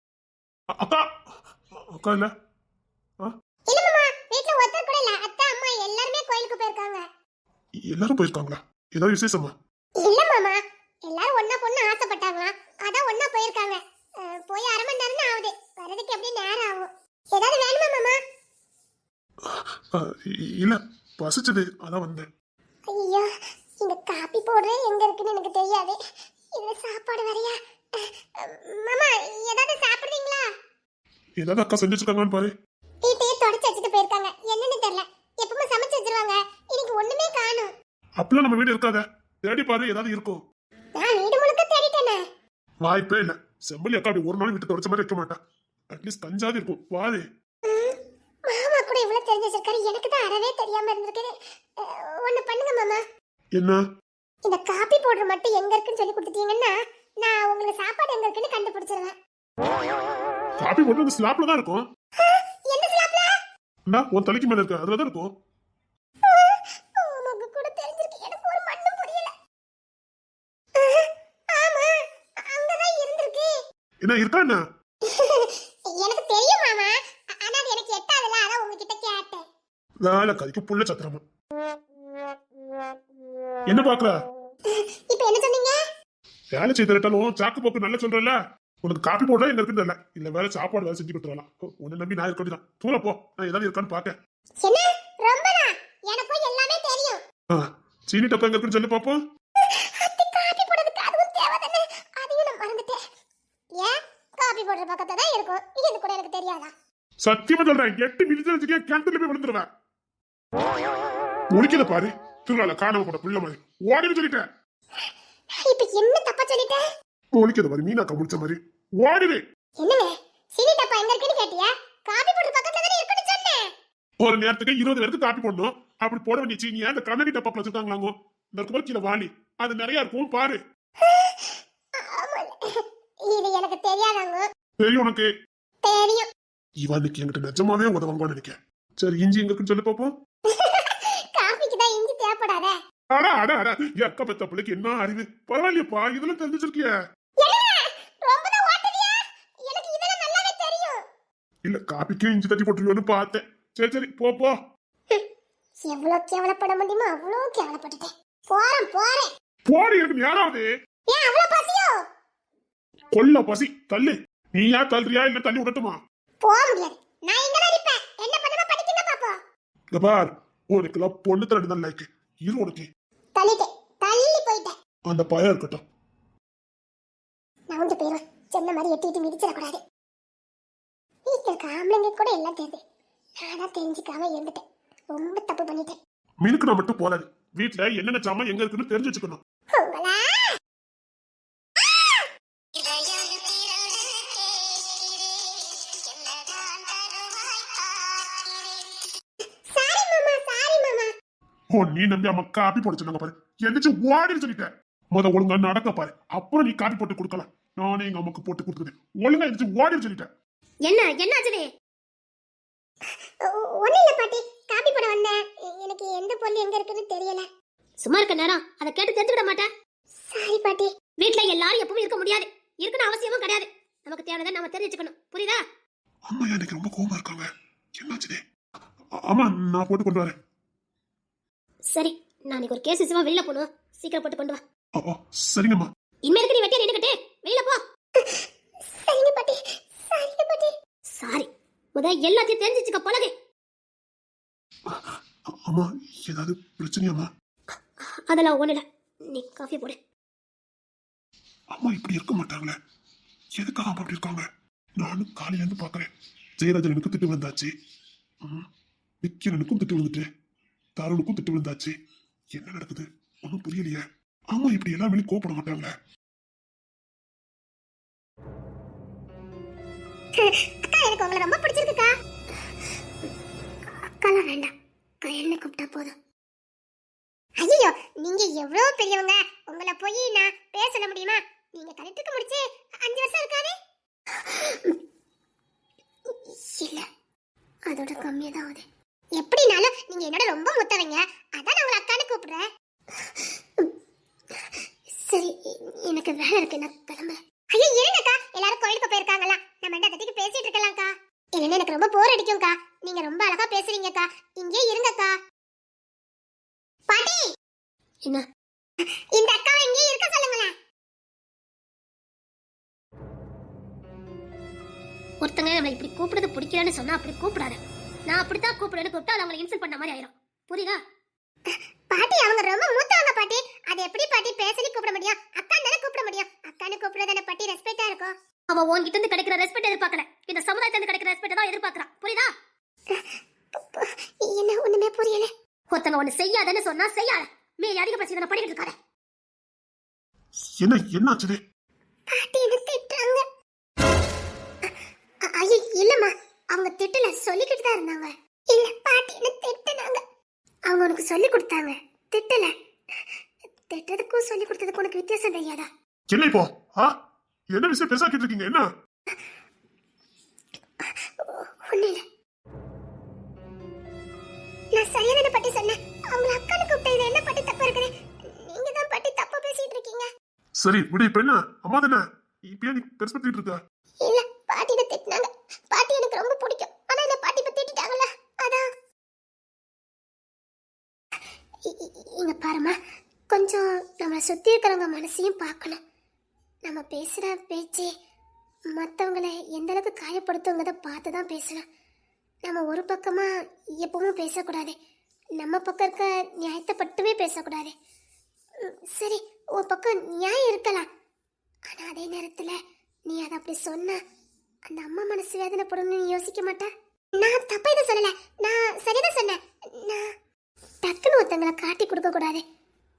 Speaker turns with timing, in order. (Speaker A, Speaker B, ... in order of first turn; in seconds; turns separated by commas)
Speaker A: 0.7-1.1, Speaker A: 1.7-2.3, Speaker B: 3.7-7.1, Speaker A: 7.9-9.5, Speaker B: 10.0-18.2, Speaker A: 19.4-22.3, Speaker B: 22.9-23.3, Speaker B: 23.8-26.0, Speaker B: 26.6-30.5, Speaker A: 31.4-32.5, Speaker B: 33.0-37.7, Speaker A: 38.2-40.4, Speaker B: 41.0-42.2, Speaker A: 42.8-45.4, Speaker A: 45.9-47.2, Speaker B: 47.7-48.0, Speaker B: 48.5-53.0, Speaker A: 53.5-53.8, Speaker B: 54.5-59.2, Speaker A: 60.6-61.9, Speaker B: 62.2-63.4, Speaker A: 63.9-65.3, Speaker B: 66.2-69.3, Speaker B: 70.8-73.5, Speaker A: 74.0-74.6, Speaker B: 75.0-79.5, Speaker A: 80.0-81.2, Speaker A: 83.7-84.2, Speaker B: 84.7-85.8, Speaker A: 86.5-94.2, Speaker B: 94.6-97.2, Speaker A: 97.5-99.2, Speaker B: 99.6-103.0, Speaker B: 103.8-106.7, Speaker A: 107.2-109.7, Speaker A: 111.5-114.5, Speaker B: 115.6-116.8, Speaker A: 117.3-119.4, Speaker B: 119.8-123.7, Speaker A: 124.2-130.6, Speaker B: 131.0-134.5, Speaker A: 134.8-135.3, Speaker B: 135.8-136.3, Speaker A: 136.8-140.1, Speaker B: 140.5-142.8, Speaker A: 143.1-146.9, Speaker B: 147.4-151.0, Speaker A: 151.7-154.6, Speaker B: 155.8-159.3, Speaker A: 159.7-160.7, Speaker B: 161.1-162.0, Speaker A: 163.1-166.0, Speaker B: 166.4-169.4, Speaker A: 169.9-172.9, Speaker B: 173.3-174.7, Speaker A: 175.1-175.8, Speaker B: 177.7-179.8, Speaker B: 181.3-182.8, Speaker B: 183.4-186.0, Speaker A: 186.4-189.4, Speaker B: 189.7-190.6, Speaker B: 191.8-199.1, Speaker B: 199.7-201.1, Speaker A: 201.7-210.3, Speaker C: 210.8-211.7, Speaker B: 213.4-217.5, Speaker C: 218.0-219.7, Speaker B: 220.3-220.9, Speaker C: 221.2-225.6, Speaker A: 226.3-228.4, Speaker A: 229.2-230.3, Speaker C: 231.9-234.6, Speaker A: 235.0-235.9, Speaker C: 236.3-237.8, Speaker B: 238.2-240.7, Speaker C: 241.2-243.3, Speaker A: 244.9-247.3, Speaker C: 248.0-250.0, Speaker A: 251.7-252.8, Speaker A: 253.6-257.7, Speaker A: 259.2-260.2, Speaker A: 261.0-261.9, Speaker A: 262.5-265.9, Speaker B: 270.4-272.1, Speaker B: 274.0-274.7, Speaker B: 275.2-276.2, Speaker B: 277.6-283.7, Speaker B: 284.3-285.0, Speaker B: 286.3-287.1, Speaker B: 287.9-293.9, Speaker B: 294.6-305.4, Speaker B: 307.1-307.5, Speaker B: 309.0-310.7, Speaker C: 315.4-321.0, Speaker B: 321.7-328.3, Speaker C: 328.7-332.5, Speaker B: 333.1-335.5, Speaker C: 335.9-338.9, Speaker A: 340.8-341.6, Speaker B: 342.3-343.4, Speaker B: 345.4-350.2, Speaker B: 350.9-352.7, Speaker B: 353.9-355.9, Speaker A: 356.3-357.1, Speaker A: 357.7-358.9, Speaker B: 361.0-362.2, Speaker B: 364.9-370.3, Speaker A: 370.8-373.8, Speaker B: 374.2-378.9, Speaker B: 381.9-383.0, Speaker B: 383.5-386.0, Speaker B: 386.9-388.1, Speaker B: 388.9-391.9, Speaker B: 392.6-395.0, Speaker B: 395.6-397.9, Speaker B: 398.8-401.1, Speaker B: 401.9-404.2, Speaker B: 404.9-410.3, Speaker B: 411.0-412.6